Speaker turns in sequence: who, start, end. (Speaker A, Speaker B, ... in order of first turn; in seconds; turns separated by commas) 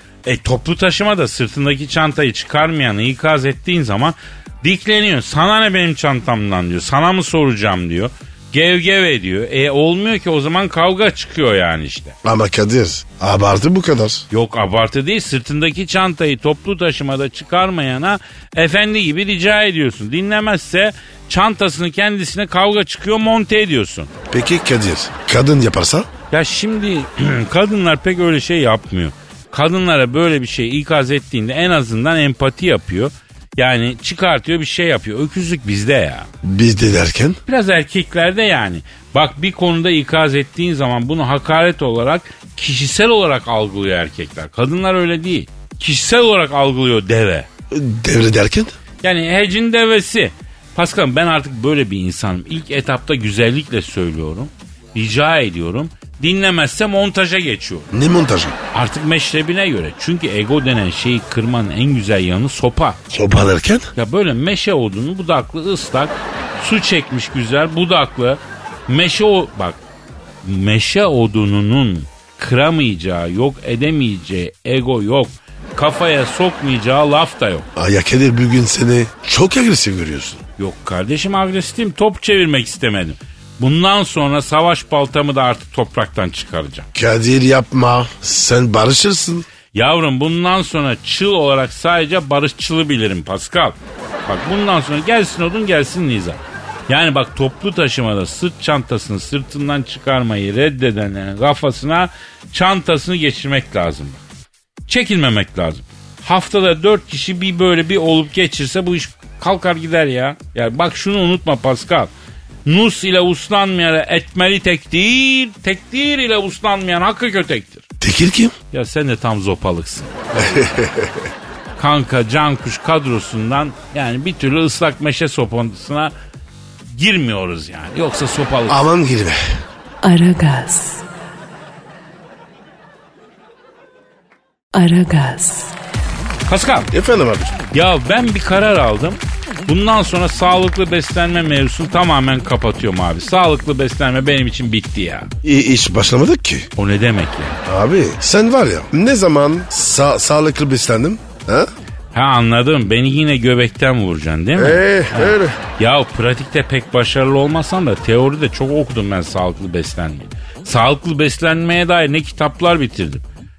Speaker A: 0.2-12.2, Speaker B: 12.2-14.3, Speaker A: 14.3-24.1, Speaker B: 24.3-26.1, Speaker A: 26.3-36.3, Speaker B: 36.4-37.4, Speaker A: 37.5-47.5, Speaker B: 47.7-48.8, Speaker A: 49.0-57.9, Speaker B: 57.9-58.6, Speaker A: 58.7-63.0, Speaker B: 63.1-63.9, Speaker A: 64.0-69.8, Speaker A: 70.4-77.7, Speaker B: 77.8-80.4, Speaker A: 80.6-86.9, Speaker B: 86.9-89.5, Speaker A: 89.7-104.2, Speaker A: 104.9-112.1, Speaker A: 112.7-117.8, Speaker B: 118.0-118.5, Speaker A: 118.7-120.6, Speaker B: 120.4-121.3, Speaker A: 121.8-126.1, Speaker A: 126.9-128.9, Speaker B: 128.7-129.4, Speaker C: 130.0-131.1, Speaker C: 134.7-135.8, Speaker A: 136.5-136.9, Speaker B: 136.9-137.6, Speaker A: 137.7-145.3, Speaker B: 145.4-146.7, Speaker A: 146.8-147.6, Speaker B: 147.7-151.7, Speaker A: 152.1-163.2, Speaker B: 154.6-155.6